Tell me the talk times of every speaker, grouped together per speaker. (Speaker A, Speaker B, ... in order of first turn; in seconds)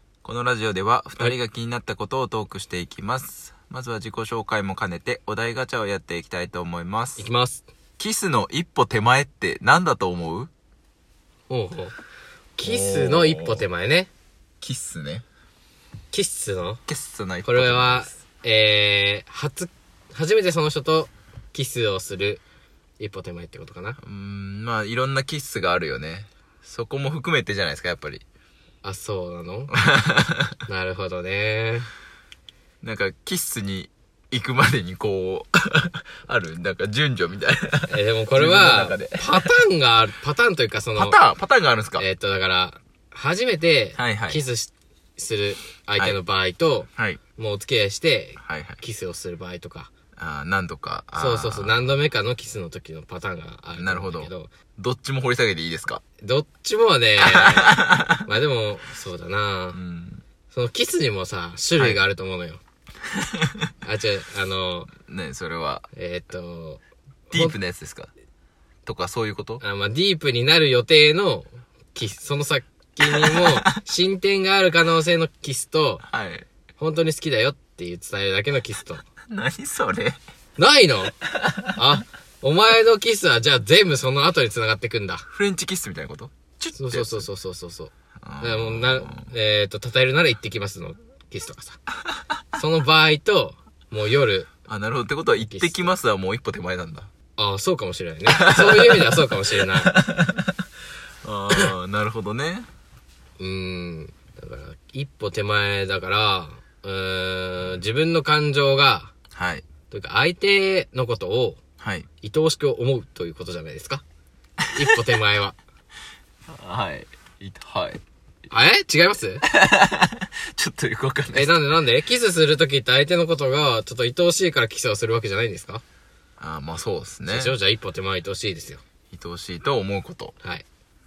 Speaker A: 0.2-7.3, 8.0-10.5, 12.6-13.6, 14.6-15.2, 16.9-18.1, 24.0-28.2, 29.7-30.6, 32.8-39.5, 41.0-42.0, 44.0-44.4, 48.4-48.8, 50.2-51.8, 53.8-56.0, 57.2-58.2, 59.7-60.2, 61.8-62.0, 63.2-63.7, 65.0-65.9, 67.3-68.1, 68.8-69.6, 73.1-73.8, 76.1-76.5, 79.3-80.2, 81.3-81.8, 85.3-87.2, 88.2-89.3, 94.7-97.1, 98.2-99.3, 99.8-100.5, 101.2-102.7, 109.3-109.7, 111.8-112.1, 116.5-118.0, 119.5-121.6, 126.4-127.5, 129.1-130.3
Speaker B: 7.2-7.6, 11.5-11.9, 12.6-14.1, 16.1-16.8, 17.4-22.4, 23.0-24.0, 28.8-29.7, 30.7-31.9, 37.9-41.2, 42.0-49.9, 51.1-54.5, 56.2-59.8, 60.5-62.6, 63.8-64.9, 65.9-66.8, 69.6-76.0, 76.8-79.0, 80.6-81.2, 81.7-85.2, 86.7-91.8, 92.5-94.5, 95.4-95.9, 97.3-99.9, 103.4-109.1, 109.9-111.6, 112.2-114.0, 114.7-115.6, 118.5-119.4, 121.3-125.8, 127.3-128.8